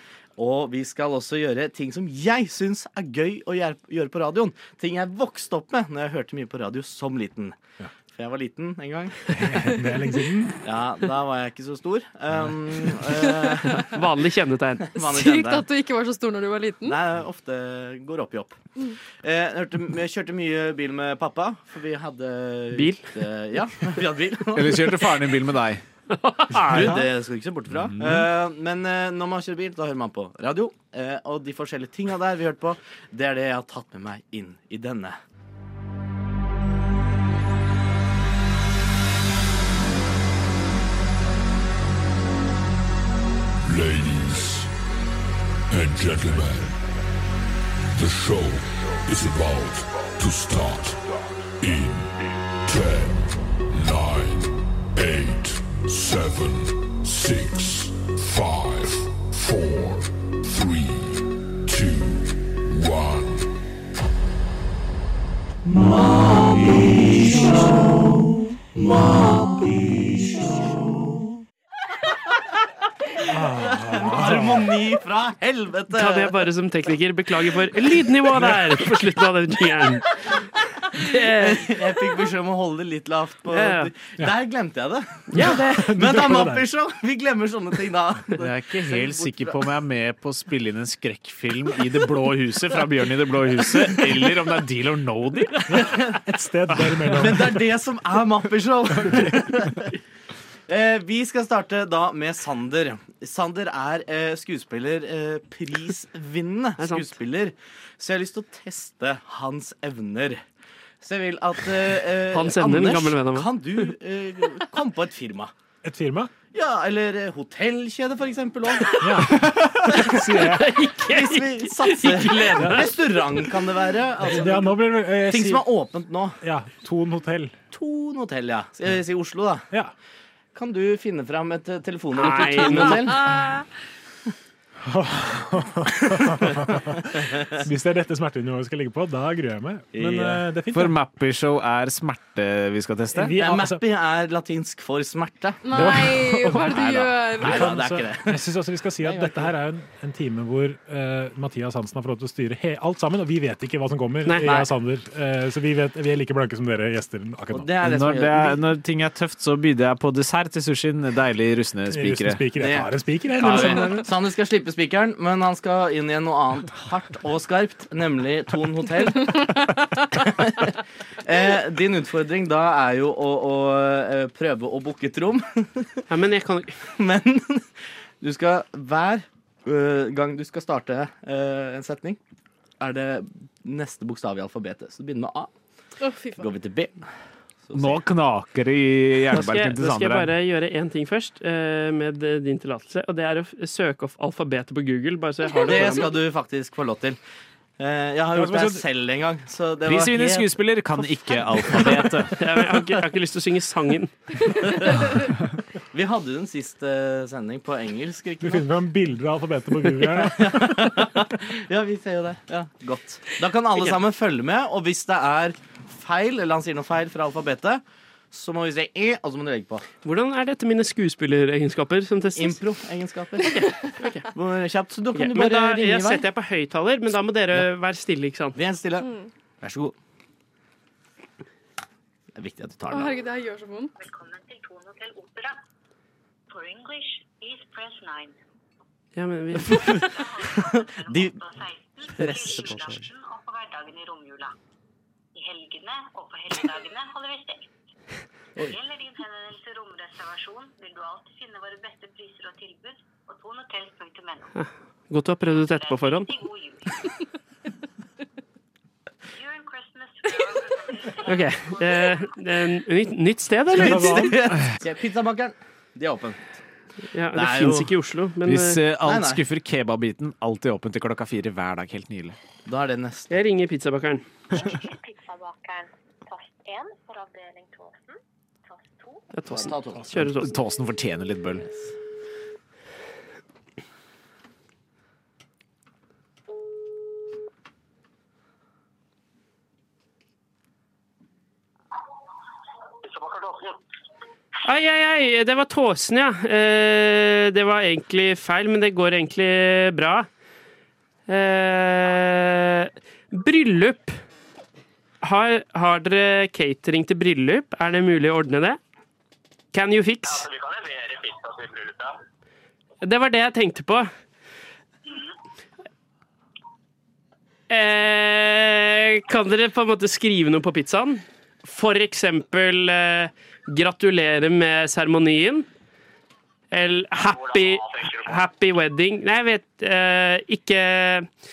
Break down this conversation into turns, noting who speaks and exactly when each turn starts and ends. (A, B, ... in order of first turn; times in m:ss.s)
0:00.4-0:07.6 A
0:08.1-0:09.3 A
0:09.5-0:10.6 B
0:10.6-0:14.0 A
0:13.8-0:14.9 C
0:14.9-0:15.7 A
0:15.0-0:17.0 D
0:16.8-0:18.6 A
0:19.2-0:25.1 A
0:22.7-0:23.0 C
0:24.5-0:25.8 E
0:26.1-0:27.0 C
0:26.6-0:27.0 B
0:26.7-0:35.2 A
0:27.9-0:28.2 E
0:43.6-0:44.7 F
0:45.7-0:46.8 F
0:47.9-1:03.6 F
1:05.8-1:07.8 A
1:09.1-1:09.6 A
1:13.2-1:14.7 B
1:13.6-1:16.4 A
1:15.9-1:20.1 C
1:20.9-1:21.7 C
1:21.1-1:29.6 A
1:23.5-1:23.9 C
1:25.3-1:25.9 C
1:25.4-1:26.6 B
1:28.4-1:35.6 E
1:33.8-1:34.2 A
1:35.7-1:37.6 B
1:35.7-1:36.2 A
1:37.1-1:40.0 A
1:40.7-1:50.4 A
1:46.8-1:47.1 C
1:51.0-1:55.5 A
1:52.3-1:53.5 C
1:55.8-1:56.3 B
1:56.5-1:59.0 A
1:59.0-2:00.7 B
1:59.9-2:00.3 A
2:00.1-2:02.9 C
2:01.0-2:06.4 A
2:04.3-2:05.6 B
2:06.4-2:07.6 B
2:07.7-2:09.7 A
2:10.6-2:13.4 A
2:12.2-2:13.2 C
2:14.9-2:21.0 B
2:19.9-2:20.4 A
2:20.7-2:23.4 E
2:23.1-2:23.8 B
2:23.4-2:28.4 A
2:25.6-2:27.8 D
2:25.7-2:37.7 B
2:29.0-2:29.5 A
2:34.2-2:34.6 C
2:34.4-2:34.7 A
2:37.5-2:38.6 A
2:37.8-2:42.4 E
2:41.9-2:44.0 B
2:42.6-2:56.0 A
2:43.4-2:44.0 C
2:56.1-2:56.8 C
2:57.0-2:57.7 A
2:58.2-3:02.2 A
3:02.8-3:05.5 A
3:06.0-3:06.5 D
3:06.4-3:07.0 A
3:07.7-3:08.0 A
3:07.7-3:10.3 E
3:09.3-3:16.1 C
3:15.6-3:17.2 A
3:17.8-3:22.1 A
3:18.4-3:18.8 B
3:19.9-3:22.4 E
3:22.4-3:24.2 C
3:24.5-3:25.2 A
3:25.9-3:28.6 A
3:28.4-3:31.1 B
3:30.2-3:39.9 A
3:40.0-3:42.6 C
3:42.4-3:43.6 A
3:43.5-3:44.3 C
3:44.3-3:46.3 A
3:45.2-3:48.6 C
3:48.6-3:49.1 A
3:49.0-3:49.3 D
3:49.6-3:50.0 A
3:52.4-3:53.2 A
3:52.9-3:53.9 D
3:54.0-3:55.6 G
3:56.5-3:58.4 G
3:59.2-4:00.0 C
3:59.7-4:04.5 G
4:00.5-4:01.4 A
4:02.1-4:03.1 A
4:05.4-4:07.7 G
4:08.6-4:14.5 G
4:14.6-4:16.3 C
4:15.7-4:17.2 G
4:19.3-4:22.5 G
4:21.3-4:24.3 C
4:23.8-4:26.6 A
4:23.8-4:24.4 B
4:27.1-4:28.8 C
4:27.3-4:27.9 A
4:28.4-4:32.4 E
4:29.0-4:29.4 A
4:32.7-4:33.4 A
4:33.3-4:34.3 C
4:34.5-4:39.3 G
4:39.3-4:40.5 C
4:39.5-4:40.1 A
4:40.2-4:41.6 E
4:41.6-4:41.9 A
4:53.0-4:53.8 H
4:54.6-5:00.3 C
5:01.3-5:04.2 C
5:05.2-5:08.8 C
5:09.7-5:10.4 C
5:10.3-5:12.2 H
5:13.0-5:14.1 C
5:17.7-5:25.7 C
5:26.7-5:31.3 C
5:27.2-5:28.4 H